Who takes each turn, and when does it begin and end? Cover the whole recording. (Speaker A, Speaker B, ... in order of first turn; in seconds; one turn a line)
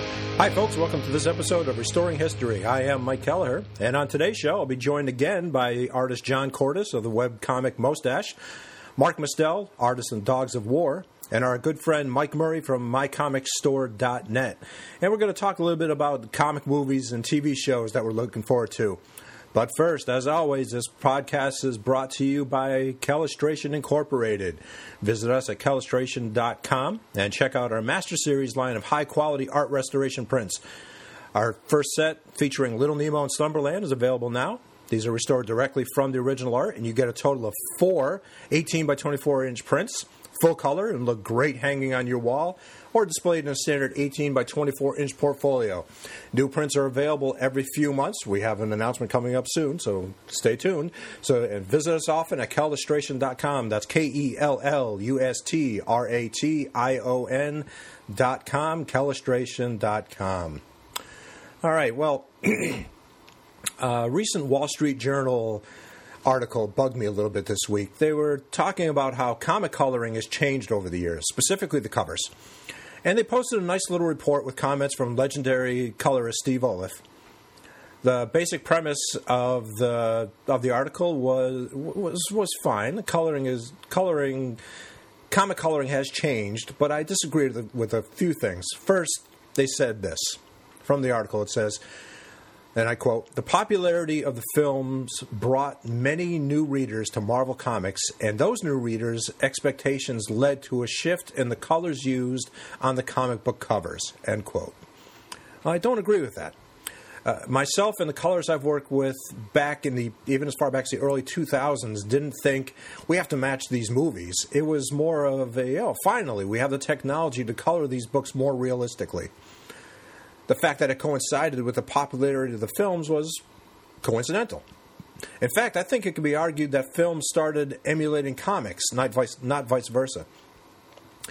Speaker A: 0.4-8.3
Speaker A: 9.0-19.0
Speaker A: 19.5-30.6
Speaker A: 31.3-60.6
Speaker A: 61.6-62.9
Speaker A: 63.8-65.6
Speaker A: 66.2-72.3
Speaker A: 73.0-77.0
Speaker A: 78.0-84.6
Speaker A: 85.3-91.8
Speaker A: 92.7-104.8
Speaker A: 105.6-106.5
Speaker A: 107.2-119.3
Speaker A: 120.5-123.4
Speaker A: 124.0-124.6
Speaker A: 125.4-130.3